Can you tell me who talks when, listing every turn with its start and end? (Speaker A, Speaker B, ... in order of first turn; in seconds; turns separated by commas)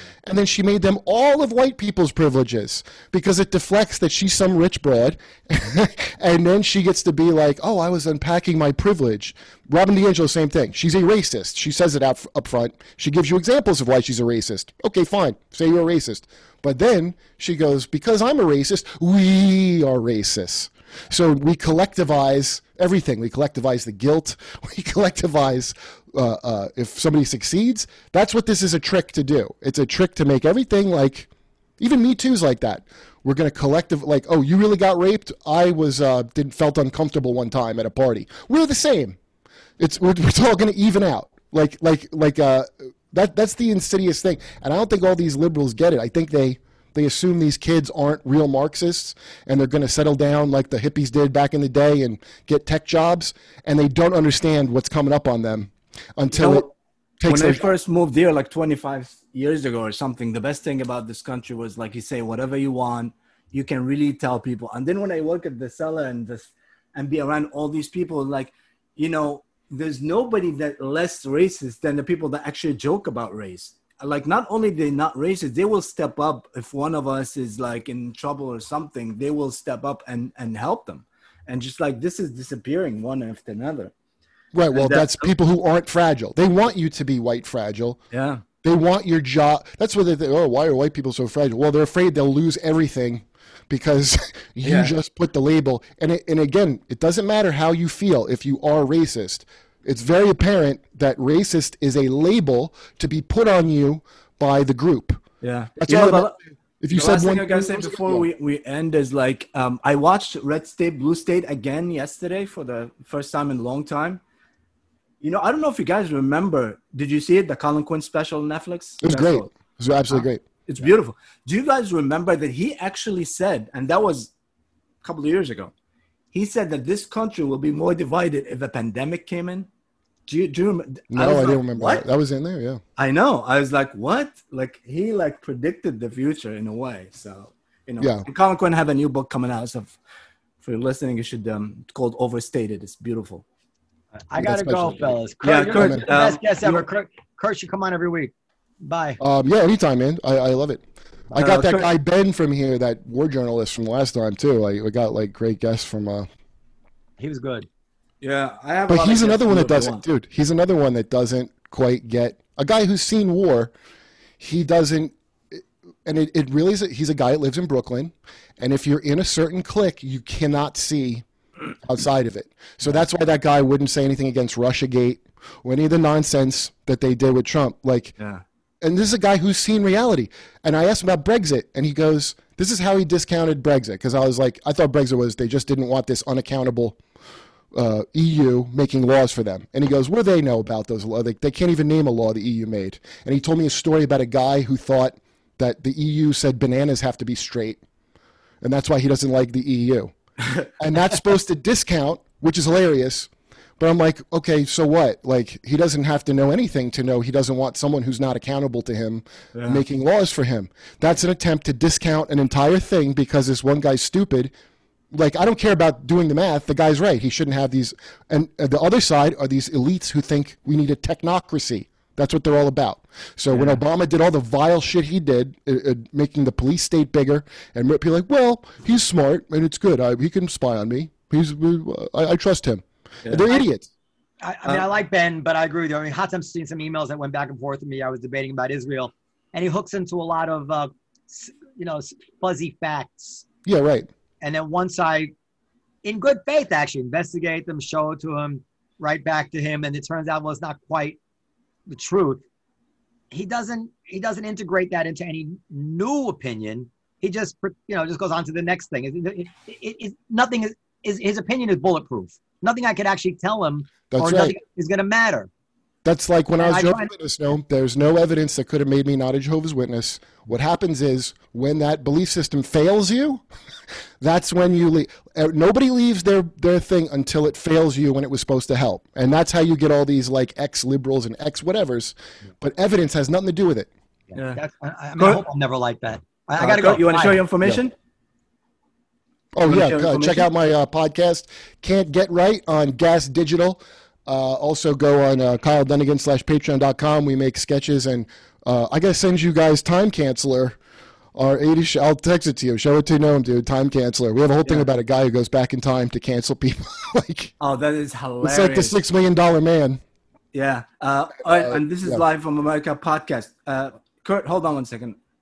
Speaker A: 0.2-39.2, Speaker A: 39.8-56.7, Speaker B: 56.3-56.7, Speaker A: 57.2-57.6, Speaker B: 57.2-83.9, Speaker A: 84.5-88.0, Speaker B: 84.7-85.3, Speaker B: 88.1-88.4, Speaker A: 88.6-105.2, Speaker B: 94.6-95.0, Speaker B: 105.4-106.4, Speaker A: 105.8-108.3, Speaker B: 106.9-114.2, Speaker B: 115.2-119.5, Speaker A: 119.0-120.4, Speaker B: 120.1-124.3, Speaker B: 125.0-125.7, Speaker B: 126.3-129.7, Speaker B: 130.3-132.0, Speaker A: 131.1-132.8, Speaker B: 132.9-140.0, Speaker A: 138.0-138.2, Speaker B: 140.6-143.4, Speaker C: 144.3-149.2, Speaker A: 144.4-145.2, Speaker B: 145.4-146.8, Speaker A: 145.7-146.1, Speaker A: 149.2-156.3, Speaker B: 151.3-151.9, Speaker C: 157.2-157.7, Speaker B: 158.2-160.0, Speaker A: 158.9-163.7, Speaker A: 164.4-171.2, Speaker A: 171.8-178.1, Speaker B: 178.2-178.4, Speaker A: 178.8-187.0, Speaker A: 187.7-197.8, Speaker A: 198.6-200.1, Speaker A: 200.8-214.5, Speaker B: 209.5-209.8, Speaker A: 215.1-233.9, Speaker B: 223.5-223.8, Speaker C: 234.4-243.4, Speaker A: 243.7-244.1, Speaker C: 244.4-245.3, Speaker C: 246.0-251.2, Speaker C: 251.9-252.4, Speaker C: 253.3-265.5, Speaker A: 264.1-264.6, Speaker A: 266.0-273.4, Speaker C: 266.6-267.1, Speaker A: 274.2-283.9, Speaker C: 284.3-287.4, Speaker B: 284.3-284.6, Speaker B: 285.2-285.4, Speaker B: 286.6-287.9, Speaker A: 289.6-300.8, Speaker B: 289.6-290.5, Speaker A: 301.3-307.5, Speaker B: 307.6-309.0, Speaker A: 308.4-310.0, Speaker B: 310.5-315.2, Speaker A: 311.6-312.2